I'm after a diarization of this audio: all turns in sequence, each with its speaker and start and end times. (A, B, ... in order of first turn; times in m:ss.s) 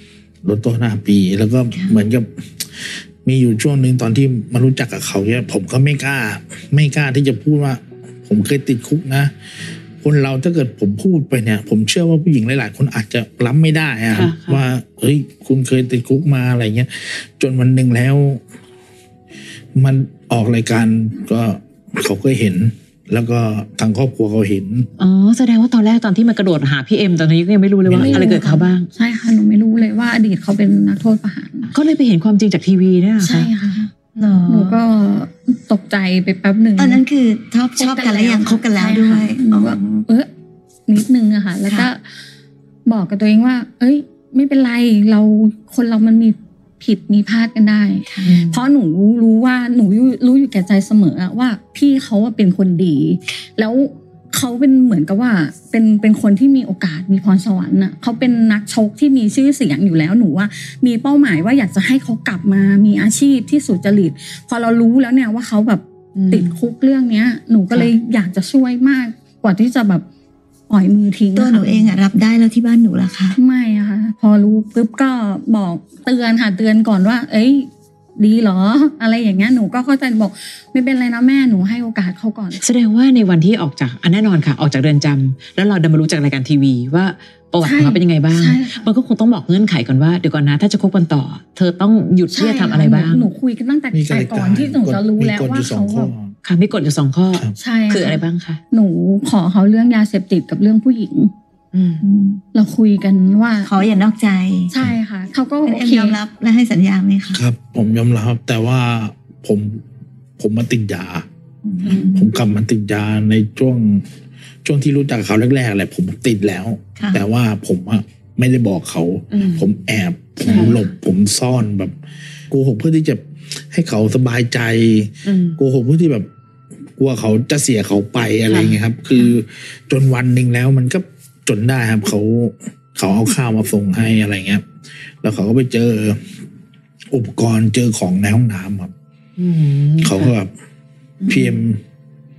0:00.4-0:09.3 A
0:01.7-0:02.0 B
0:10.0-0:18.4 A
0:14.1-0:14.6 C
0:19.8-0:24.9 A
0:25.0-0:28.9 C
0:27.9-0:28.3 A
0:28.0-0:31.7 D
0:28.2-0:28.5 B
0:31.7-0:33.5 C
0:33.2-0:37.0 D
0:34.2-0:34.8 C
0:36.8-0:40.1 B
0:37.8-0:40.3 D
0:40.9-0:42.0 D
0:42.9-1:10.0 D
0:48.1-0:48.4 B
0:48.3-0:48.6 C
1:06.2-1:06.5 C
1:10.7-1:11.9 D
1:11.4-1:13.4 B
1:13.4-1:22.6 D
1:22.6-1:33.3 C
1:27.6-1:28.9 D
1:32.3-1:36.1 D
1:33.9-1:36.3 A
1:36.4-1:38.6 C
1:37.6-1:41.3 D
1:41.7-1:42.0 C
1:42.0-1:42.4 B
1:42.5-1:43.8 D
1:43.6-1:44.7 B
1:44.7-1:46.2 D
1:45.7-1:47.4 B
1:47.4-1:49.8 A
1:50.4-1:51.3 A
1:51.6-1:52.3 B
1:51.8-1:52.1 C
1:52.0-1:54.1 A
1:54.6-2:01.9 A
1:57.0-1:57.2 B
1:59.3-1:59.6 C
2:00.4-2:00.9 B
2:00.5-2:00.8 C
2:02.5-2:06.3 A
2:05.2-2:05.6 C
2:07.0-2:14.6 A
2:08.5-2:08.8 C
2:15.2-2:16.2 A
2:17.1-2:18.9 A
2:19.4-2:20.3 C
2:20.0-2:20.5 A
2:21.2-2:21.5 C
2:21.3-2:21.8 A